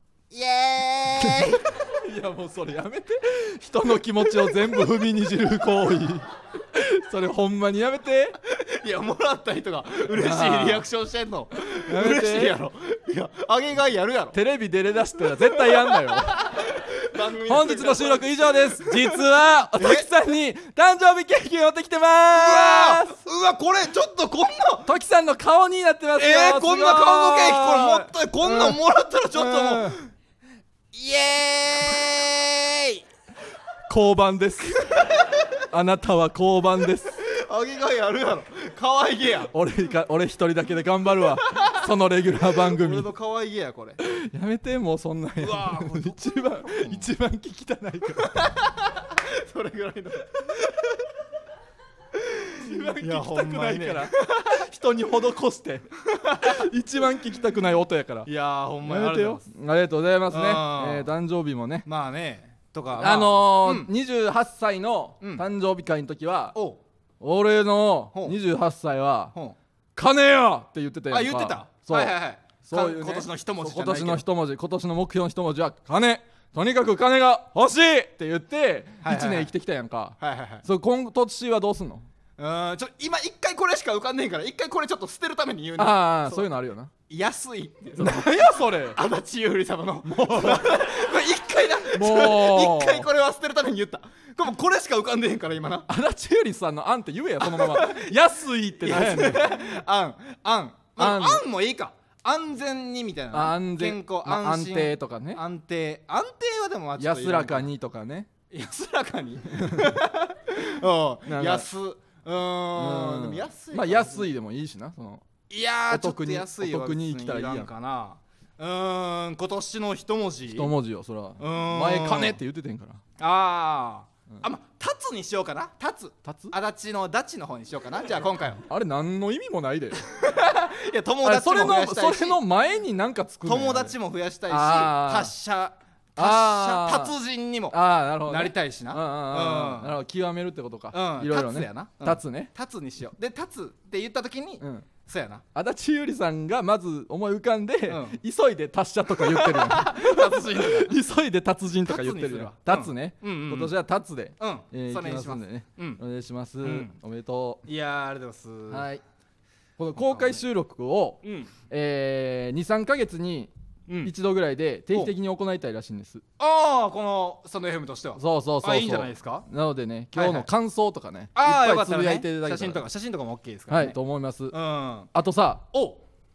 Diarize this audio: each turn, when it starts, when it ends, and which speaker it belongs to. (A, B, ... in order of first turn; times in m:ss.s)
0:00.3-0:01.6 A
0:01.2-0:08.4 B
0:08.5-0:14.4 A
0:10.1-0:10.9 B
0:11.7-0:12.6 B
0:14.3-0:16.6 B
0:15.5-0:19.2 A
0:17.5-0:23.2 B
0:19.7-0:20.1 A
0:22.3-0:24.9 A
0:24.8-0:30.0 B
0:26.2-0:30.1 A
0:30.9-0:33.0 A
0:33.9-0:35.1 B
0:35.7-0:37.2 B
0:37.2-0:39.5 A
0:39.5-0:43.1 B
0:42.7-0:44.0 A
0:44.0-0:48.4 B
0:45.4-0:47.1 A
0:48.3-0:50.8 A
0:52.2-0:54.6 A
0:52.6-0:55.9 B
0:56.1-0:56.6 A
0:56.4-0:58.3 B
0:58.2-0:59.4 A
0:58.8-1:01.9 B
1:00.3-1:01.1 A
1:01.8-1:03.9 A
1:03.0-1:06.6 B
1:05.2-1:05.4 A
1:06.5-1:06.8 A
1:07.2-1:09.3 B
1:10.0-1:22.1 B
1:11.1-1:14.2 A
1:19.0-1:19.5 A
1:20.2-1:20.6 A
1:22.4-1:26.5 A
1:25.8-1:26.9 B
1:27.1-1:35.9 A
1:28.0-1:29.0 B
1:30.0-1:30.8 B
1:31.9-1:33.1 B
1:35.9-1:39.6 B
1:37.4-1:38.1 A
1:38.8-1:47.7 A
1:41.0-1:41.4 B
1:43.3-1:45.4 B
1:47.0-1:48.3 B
1:48.5-1:54.3 A
1:49.6-1:50.0 B
1:51.2-1:51.7 B
1:52.8-1:55.2 B
1:55.5-2:00.7 A
1:55.9-1:57.7 B
2:00.5-2:03.0 B
2:01.4-2:02.4 A
2:03.2-2:08.6 A
2:06.2-2:06.5 B
2:08.7-2:10.0 B
2:10.1-2:12.4 A
2:11.2-2:14.0 B
2:13.4-2:20.0 A
2:14.5-2:15.3 B
2:16.2-2:17.1 B
2:17.7-2:22.5 B
2:20.9-2:25.4 A
2:24.6-2:24.9 B
2:25.5-2:37.6 B
2:27.9-2:28.2 A
2:29.2-2:31.0 A
2:31.8-2:33.7 A
2:34.4-2:36.0 A
2:36.6-2:36.9 A
2:37.6-2:38.9 A
2:38.7-2:39.0 B
2:39.8-2:43.5 B
2:40.0-2:40.4 A
2:41.2-2:41.5 A
2:43.9-2:44.1 A
2:44.0-2:46.2 B
2:46.4-2:49.5 A
2:48.2-2:52.8 B
2:50.1-2:50.5 A
2:51.3-2:54.0 A
2:53.7-2:54.6 B
2:54.5-2:55.1 A
2:55.1-2:55.6 B
2:55.7-2:56.0 A